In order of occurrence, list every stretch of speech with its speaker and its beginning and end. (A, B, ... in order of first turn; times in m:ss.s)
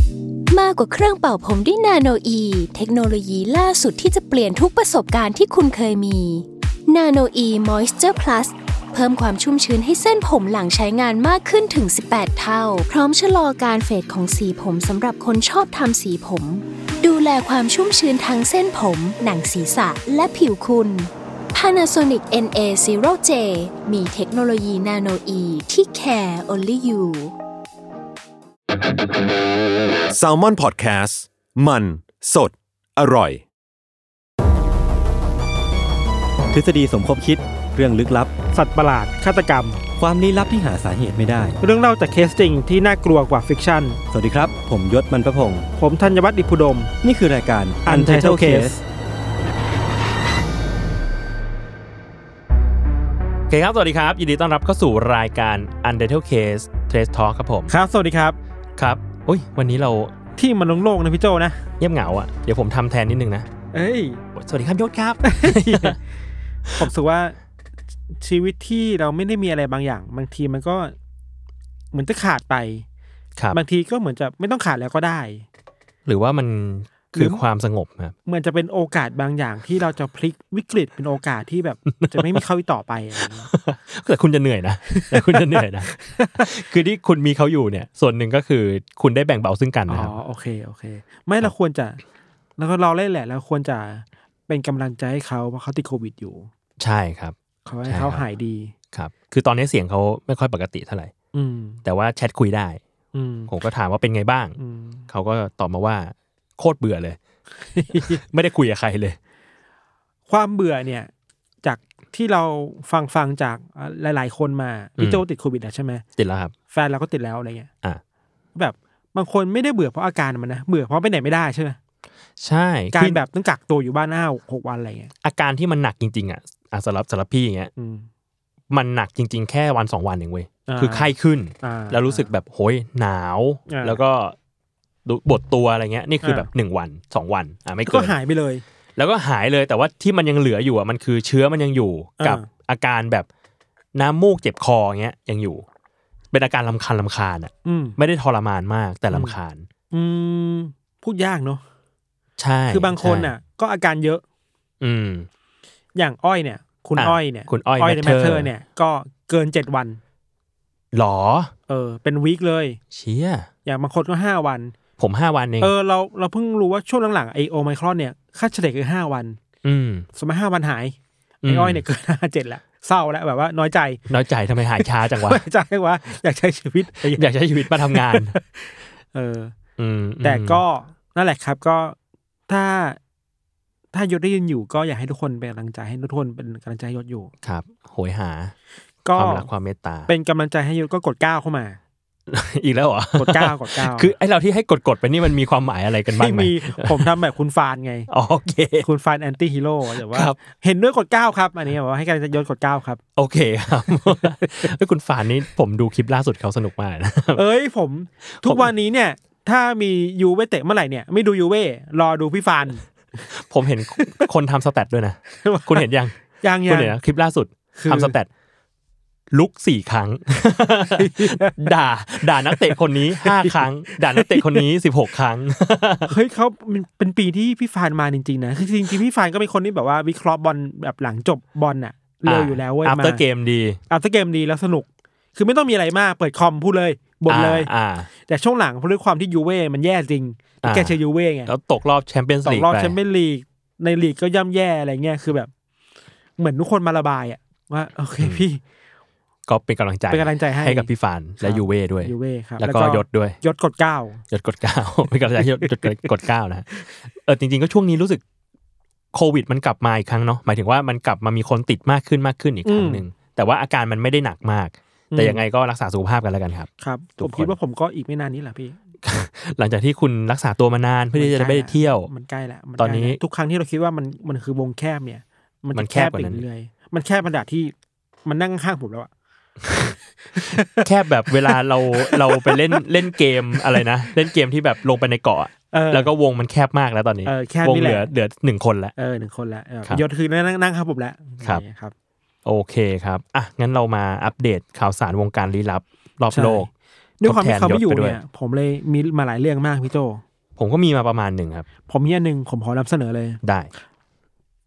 0:00.5-0:27.3 A
0:30.1-0:33.4 B
0:36.5-0:38.3 C
0:38.5-0:39.8 D
0:40.0-0:41.6 C
0:41.6-0:44.0 D
0:44.1-0:45.7 C
0:45.8-0:46.9 D
0:47.0-0:48.8 C
0:47.8-0:48.8 D
0:53.5-0:57.7 E
0:57.7-0:58.4 D
0:58.8-1:00.1 E
1:00.4-1:01.6 D
1:01.8-1:03.5 E
1:03.7-1:04.2 D
1:04.4-1:06.0 E
1:05.2-1:06.0 D
1:06.8-1:07.4 D
1:08.2-1:11.0 D
1:11.9-1:12.9 D
1:13.5-1:15.5 D
1:16.1-1:18.2 E
1:17.2-1:17.4 D
1:18.3-1:23.5 D
1:22.0-1:22.4 E
1:23.2-1:30.1 E
1:24.9-1:26.5 D
1:29.9-1:32.0 D
1:32.6-1:36.5 D
1:36.8-1:37.4 E
1:37.6-1:38.7 D
1:37.9-1:38.2 E
1:38.9-1:41.1 E
1:41.3-1:41.8 D
1:41.8-1:42.8 E
1:43.1-1:43.5 D
1:43.5-1:44.6 E
1:44.6-1:45.1 D
1:45.1-1:47.2 E
1:47.7-1:48.2 D
1:47.9-1:49.2 E
1:50.3-1:51.1 D
1:51.6-1:56.0 D
1:56.2-1:56.5 E
1:56.7-1:57.7 D
1:58.6-2:01.8 D
2:02.4-2:03.2 E
2:02.9-2:05.1 D
2:05.2-2:07.7 E
2:07.8-2:08.1 D
2:08.7-2:14.4 E
2:10.7-2:11.1 D
2:11.6-2:12.3 D
2:13.7-2:14.0 D
2:15.0-2:18.2 E
2:16.2-2:16.5 D
2:17.9-2:18.6 D
2:19.0-2:23.3 E
2:22.2-2:22.5 D
2:24.0-2:25.6 E
2:26.3-2:29.7 E
2:27.6-2:28.0 D
2:29.9-2:31.6 D
2:32.4-2:33.3 E
2:32.7-2:34.2 D
2:34.8-2:35.3 E
2:36.0-2:40.0 D
2:37.0-2:38.5 E
2:40.9-2:41.5 E
2:41.7-2:42.8 D
2:42.9-2:43.5 E
2:43.6-2:44.8 D
2:45.0-2:45.7 E
2:45.6-2:49.4 D
2:49.6-2:50.1 E
2:50.2-2:54.0 D
2:51.4-2:51.8 E
2:54.1-2:55.4 E
2:54.8-2:57.3 D
2:57.0-2:58.4 E
2:57.8-2:59.6 D
2:59.8-3:00.6 E
3:00.2-3:02.0 D
3:02.5-3:03.0 D
3:03.9-3:07.3 D
3:07.4-3:08.5 E
3:09.0-3:09.5 D
3:09.1-3:10.1 E
3:10.1-3:11.8 D
3:12.3-3:17.1 E
3:13.2-3:14.1 D
3:16.2-3:18.1 D
3:18.1-3:18.9 E
3:18.8-3:23.0 D
3:19.9-3:20.4 E
3:23.2-3:27.4 E
3:24.4-3:24.7 D
3:27.3-3:32.8 D
3:28.4-3:28.7 E
3:33.3-3:36.1 E
3:34.0-3:34.3 D
3:35.4-3:35.9 D
3:36.4-3:37.0 D
3:36.7-3:38.3 E
3:37.8-3:38.2 D
3:39.3-3:46.1 E
3:41.0-3:41.8 D
3:42.5-3:44.6 D
3:46.1-3:53.2 D
3:52.3-3:53.8 E
3:53.9-3:57.7 D
3:57.3-3:58.1 E
3:58.3-4:01.5 D
4:00.6-4:01.0 E
4:01.5-4:03.0 E
4:02.4-4:05.5 D
4:06.4-4:08.6 D
4:09.5-4:13.4 E
4:10.1-4:10.9 D
4:11.4-4:14.2 D
4:14.3-4:18.2 E
4:15.4-4:16.0 D
4:19.1-4:27.5 E
4:22.6-4:23.0 D
4:25.1-4:25.4 D
4:26.8-4:28.8 D
4:29.0-4:32.1 E
4:31.2-4:37.7 D
4:32.8-4:33.2 E
4:35.7-4:36.4 E
4:38.3-4:39.1 D
4:39.7-4:42.8 D
4:40.8-4:48.9 E
4:43.5-4:43.8 D
4:45.7-4:46.1 D
4:47.3-4:48.1 D
4:49.0-4:51.9 D
4:52.4-4:56.7 E
4:56.3-4:56.7 D
4:57.2-5:00.2 D
4:57.2-4:58.2 E
5:00.6-5:01.7 E
5:01.9-5:03.4 D
5:03.4-5:03.7 E